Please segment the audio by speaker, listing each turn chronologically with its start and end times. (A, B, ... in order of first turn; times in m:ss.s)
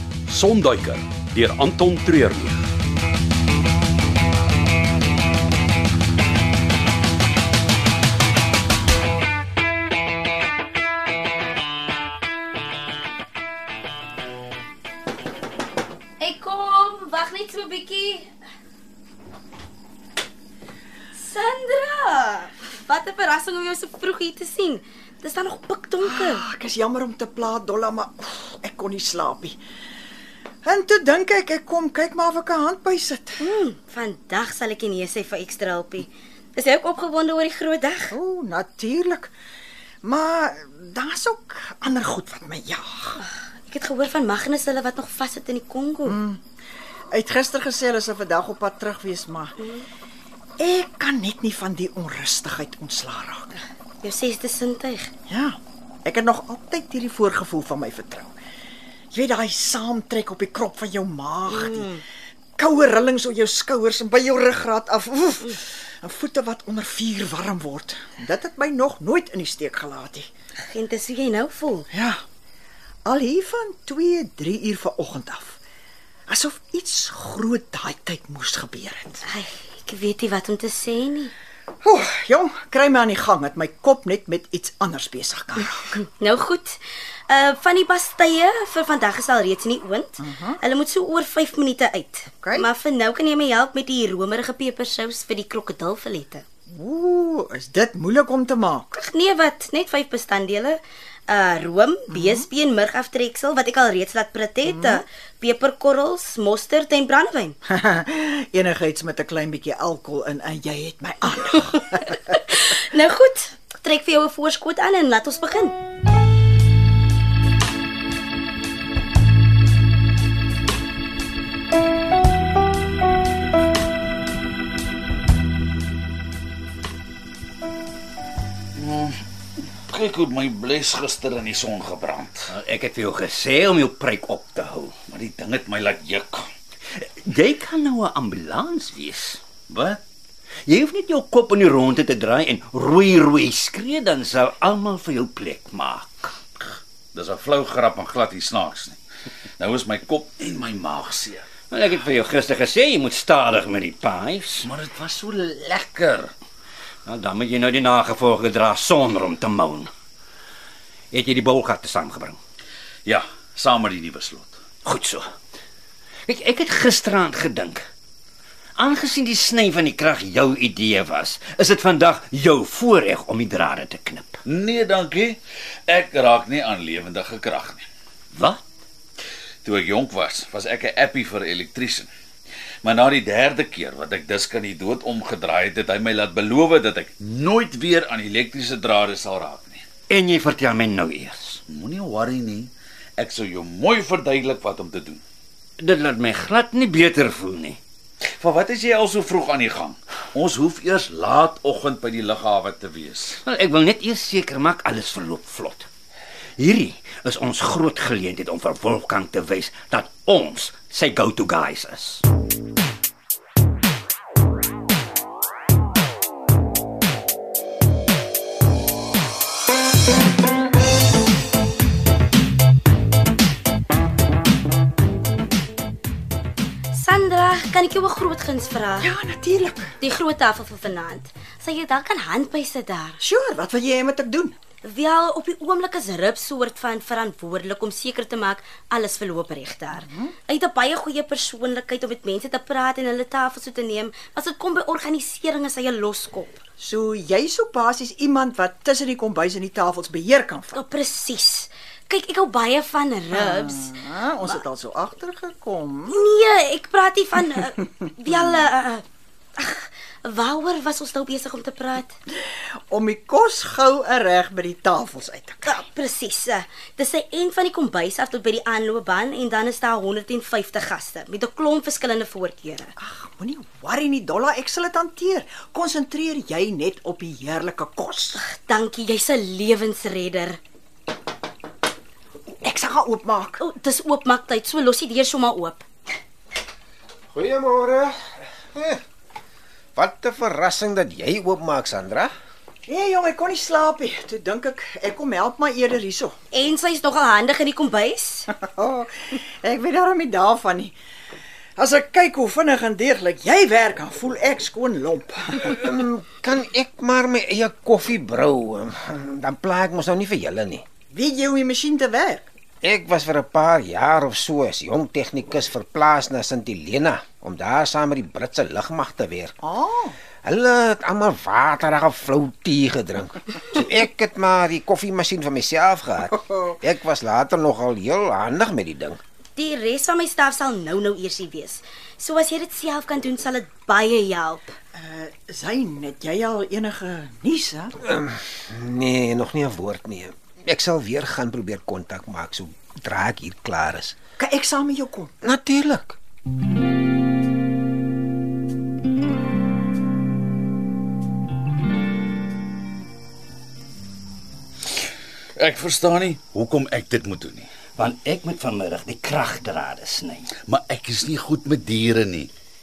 0:00.3-0:02.6 A
0:16.2-0:18.3 B
0:21.2-0:26.4 B
0:26.0-0:29.6 C
0:30.6-0:33.4 C
0:33.4-0:38.1 B
0:38.1-0:39.3 C
0:40.0-0:43.2 C
0:43.2-0:46.2 B
0:46.0-0:46.4 C
0:47.1-0:49.6 C
0:49.6-0:49.8 B
0:50.6-0:53.6 C
0:54.0-0:55.1 B
0:55.3-0:58.3 C
0:59.1-1:02.0 C
1:01.5-1:02.0 B
1:02.6-1:10.3 C
1:10.6-1:11.9 B
1:11.9-1:12.2 C
1:13.0-1:15.6 C
1:16.3-1:19.2 C
1:19.3-1:21.3 B
1:21.8-1:25.9 C
1:26.1-1:36.4 B
1:30.2-1:30.6 C
1:32.4-1:32.7 C
1:36.7-1:38.9 C
1:38.9-1:47.6 B
1:42.1-1:42.4 C
1:44.6-1:45.0 C
1:47.7-1:52.0 C
1:52.3-1:55.8 B
2:08.8-2:09.2 D
2:09.9-2:12.5 D
2:12.5-2:14.9 E
2:15.1-2:16.4 D
2:17.0-2:19.4 E
2:19.7-2:20.0 D
2:20.6-2:26.3 E
2:27.1-2:29.0 D
2:29.6-2:31.5 D
2:31.7-2:34.7 E
2:34.6-2:36.3 D
2:37.0-2:39.9 E
2:41.1-2:42.4 E
2:43.0-2:44.5 D
2:44.8-2:45.2 E
2:46.2-2:47.8 E
2:48.8-2:54.4 E
2:54.4-2:57.8 D
2:58.3-2:58.6 E
2:59.6-3:02.1 D
3:02.8-3:09.8 D
3:10.1-3:11.6 E
3:11.7-3:15.2 D
3:15.8-3:17.8 E
3:18.4-3:23.4 D
3:23.4-3:25.9 E
3:26.6-3:32.2 E
3:46.9-3:49.1 B
3:49.0-3:50.0 C
3:50.0-3:53.2 B
3:53.2-3:54.5 C
3:54.8-4:06.6 B
3:59.9-4:00.3 C
4:06.8-4:10.8 C
4:10.7-4:13.9 B
4:13.3-4:16.2 C
4:16.1-4:19.0 B
4:19.6-4:22.1 B
4:22.3-4:25.8 C
4:25.6-4:32.9 B
4:33.0-4:38.4 C
4:38.4-4:40.6 B
4:42.6-4:43.6 C
4:43.6-4:45.8 B
4:47.3-4:48.2 F
4:48.7-4:49.0 F
4:50.0-4:52.3 F
4:52.9-4:56.4 C
4:56.5-4:58.5 B
4:58.5-5:01.0 C
5:01.8-5:05.7 C
5:05.6-5:10.8 F
5:11.1-5:12.5 C
5:12.8-5:19.6 F
5:19.6-5:20.2 C
5:20.4-5:29.2 F
5:29.6-5:34.7 B
5:34.9-5:37.9 C
5:38.0-5:44.2 F
5:44.4-5:45.3 C
5:45.4-5:46.2 F
5:55.6-5:57.7 D
5:58.0-6:00.5 E
6:00.6-6:02.5 D